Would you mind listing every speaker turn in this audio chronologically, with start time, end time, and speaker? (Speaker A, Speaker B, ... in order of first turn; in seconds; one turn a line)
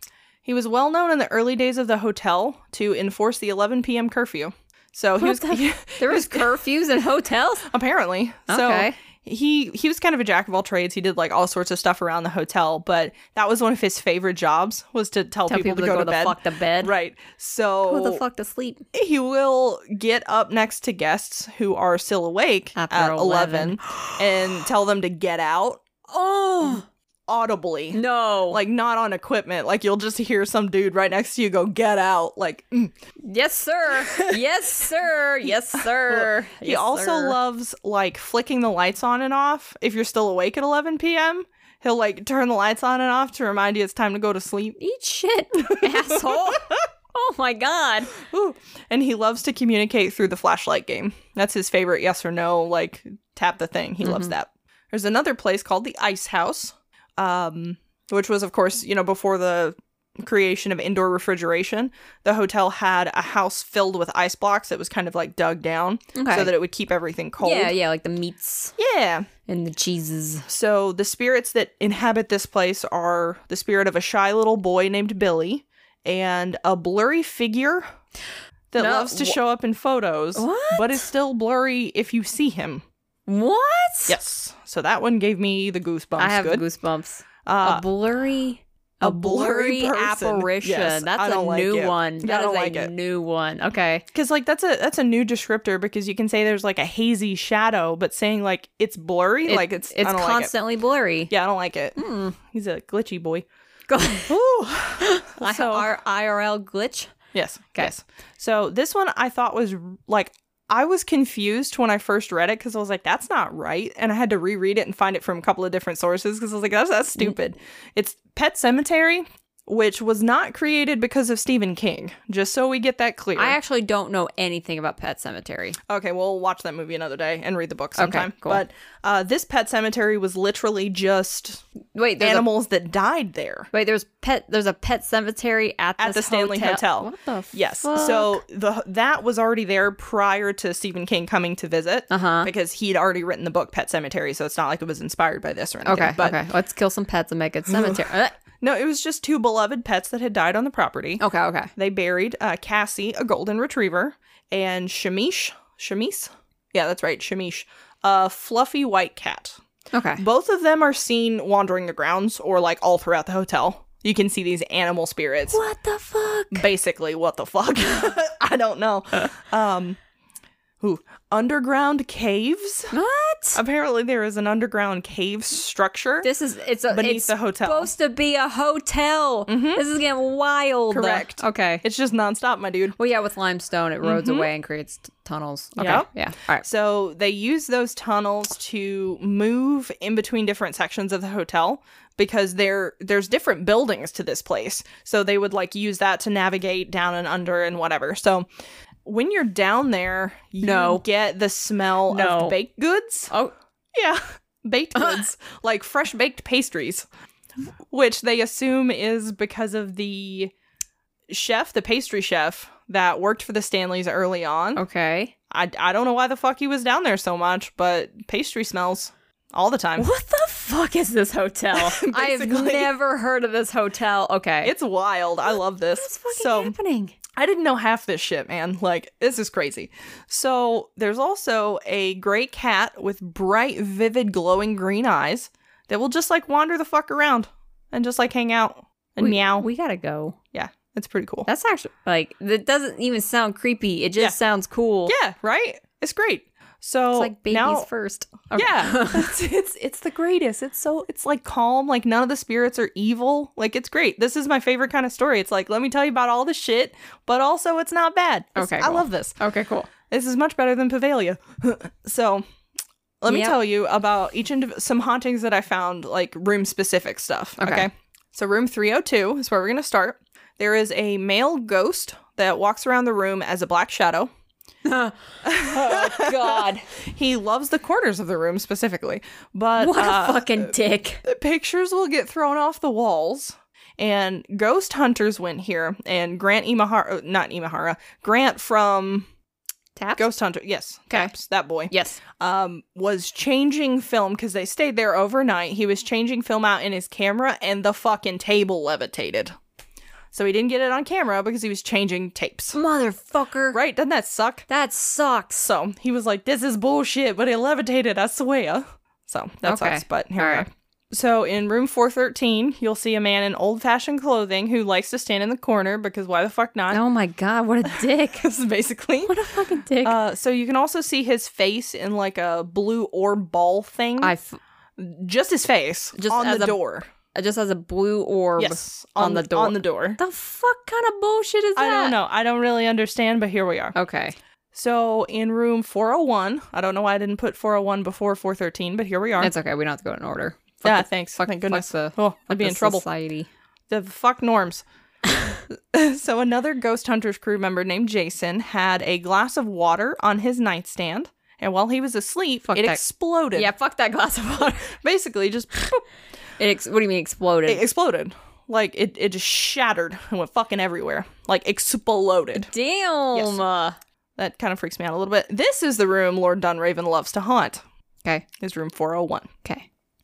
Speaker A: 0.5-6.6
Speaker B: 5.2-7.7
Speaker A: 7.7-18.2
Speaker B: 8.5-8.9
Speaker B: 15.5-16.9
Speaker B: 17.9-18.8
Speaker A: 18.9-25.8
Speaker B: 22.8-24.6
Speaker B: 26.1-26.9
Speaker A: 27.3-32.9
Speaker B: 27.9-28.6
Speaker B: 33.2-37.4
Speaker A: 35.5-44.8
Speaker B: 44.8-48.2
Speaker A: 45.7-46.8
Speaker A: 48.1-67.8
Speaker B: 54.0-54.3
Speaker B: 66.2-66.5
Speaker B: 67.4-68.8
Speaker A: 68.8-69.3
Speaker B: 69.5-70.5
Speaker A: 70.5-77.9
Speaker A: 78.7-82.8
Speaker B: 78.8-79.4
Speaker B: 80.3-81.1
Speaker B: 83.3-84.2
Speaker A: 84.1-86.6
Speaker B: 86.2-94.0
Speaker A: 87.5-87.8
Speaker A: 89.0-92.9
Speaker A: 94.1-100.5
Speaker B: 99.5-101.3
Speaker A: 101.3-103.5
Speaker B: 102.0-102.4
Speaker B: 103.9-104.3
Speaker A: 104.3-105.9
Speaker B: 105.0-107.1
Speaker A: 107.3-123.6
Speaker B: 123.4-125.8
Speaker A: 125.9-131.6
Speaker B: 128.0-128.6
Speaker B: 131.9-132.5
Speaker A: 132.2-133.7
Speaker B: 133.7-138.4
Speaker A: 136.0-146.4
Speaker B: 142.1-142.5
Speaker B: 145.8-148.4
Speaker A: 147.7-148.0
Speaker A: 148.6-151.2
Speaker B: 151.2-151.7
Speaker A: 151.8-159.6
Speaker B: 159.9-160.2
Speaker A: 160.2-165.6
Speaker B: 165.5-166.7
Speaker A: 166.5-170.0
Speaker A: 170.8-172.9
Speaker B: 172.9-173.6
Speaker A: 173.6-176.3
Speaker B: 176.2-181.8
Speaker A: 176.9-177.9
Speaker A: 179.5-179.8
Speaker A: 180.9-182.9
Speaker B: 183.0-186.6
Speaker A: 184.0-184.5
Speaker A: 185.8-198.4
Speaker A: 199.1-203.3
Speaker B: 200.6-201.0
Speaker B: 202.1-202.6
Speaker A: 203.9-207.1
Speaker B: 204.9-205.2
Speaker A: 207.9-210.5
Speaker A: 211.3-214.8
Speaker B: 214.8-215.3
Speaker A: 215.5-220.1
Speaker B: 220.0-224.7
Speaker A: 221.7-222.9
Speaker A: 224.6-226.7
Speaker B: 225.5-227.2
Speaker A: 227.3-239.7
Speaker B: 239.2-240.4
Speaker A: 240.5-241.5
Speaker B: 241.4-245.2
Speaker A: 245.1-247.9
Speaker B: 247.1-249.4
Speaker A: 248.6-259.4
Speaker B: 258.6-259.9
Speaker A: 260.1-262.4
Speaker A: 263.2-274.3
Speaker B: 263.3-263.6
Speaker B: 267.6-267.9
Speaker B: 274.9-276.9
Speaker A: 275.4-289.3
Speaker B: 279.8-281.2
Speaker B: 289.9-290.3
Speaker A: 290.2-299.5
Speaker B: 291.9-292.2
Speaker A: 300.3-302.8
Speaker B: 302.8-303.8
Speaker A: 303.7-304.7
Speaker B: 304.7-305.7
Speaker A: 305.6-317.0
Speaker B: 309.6-310.7
Speaker B: 316.9-318.5
Speaker A: 317.9-319.3
Speaker B: 319.2-320.2
Speaker A: 320.0-324.3
Speaker B: 324.2-324.6
Speaker A: 325.0-327.1
Speaker B: 326.2-326.8
Speaker B: 327.3-332.2
Speaker A: 328.6-330.2
Speaker A: 331.8-333.9
Speaker B: 333.9-334.4
Speaker A: 334.7-339.5
Speaker B: 339.4-343.5
Speaker A: 340.8-343.1
Speaker A: 343.9-344.9
Speaker A: 345.8-353.7
Speaker B: 352.7-353.0
Speaker B: 353.5-354.9
Speaker A: 354.9-356.0
Speaker B: 356.6-357.8
Speaker A: 357.7-362.7
Speaker B: 362.7-364.0
Speaker A: 363.3-363.6
Speaker A: 364.4-367.8
Speaker A: 368.6-369.5